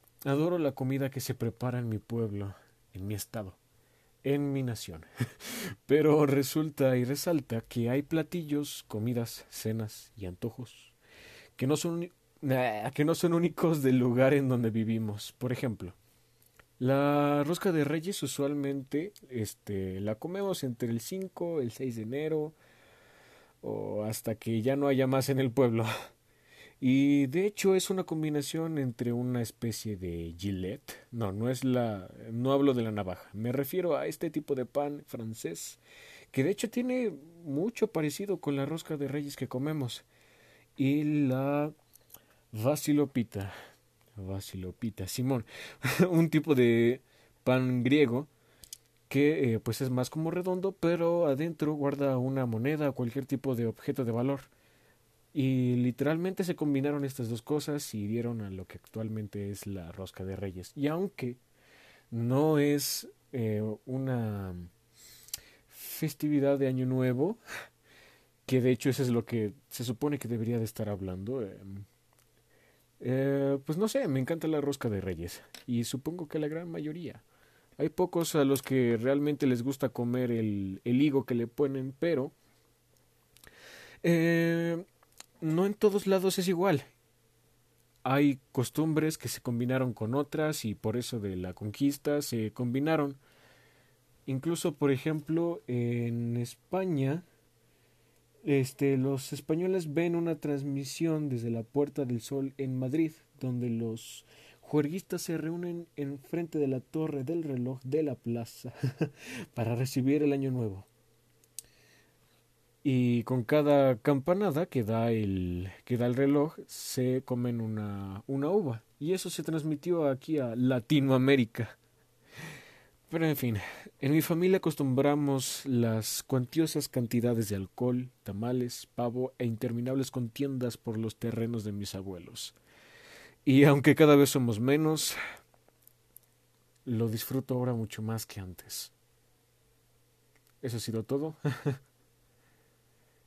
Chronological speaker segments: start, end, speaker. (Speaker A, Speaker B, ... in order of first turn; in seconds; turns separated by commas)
Speaker A: 0.2-3.6, Speaker A: 4.2-10.9, Speaker A: 11.6-15.9, Speaker A: 16.8-22.5, Speaker A: 23.6-25.9, Speaker A: 26.8-35.8, Speaker A: 36.3-40.0, Speaker A: 40.8-41.7, Speaker A: 42.5-43.5, Speaker A: 44.1-48.3, Speaker A: 49.1-54.5, Speaker A: 55.3-61.4, Speaker A: 62.1-64.7, Speaker A: 65.7-67.4, Speaker A: 68.5-71.8, Speaker A: 73.0-77.2, Speaker A: 77.8-82.3, Speaker A: 84.0-84.8, Speaker A: 85.4-86.8, Speaker A: 88.0-93.2, Speaker A: 94.2-97.2, Speaker A: 98.4-110.9, Speaker A: 112.8-121.8, Speaker A: 123.1-132.5, Speaker A: 133.4-135.2, Speaker A: 136.8-138.9, Speaker A: 140.6-141.8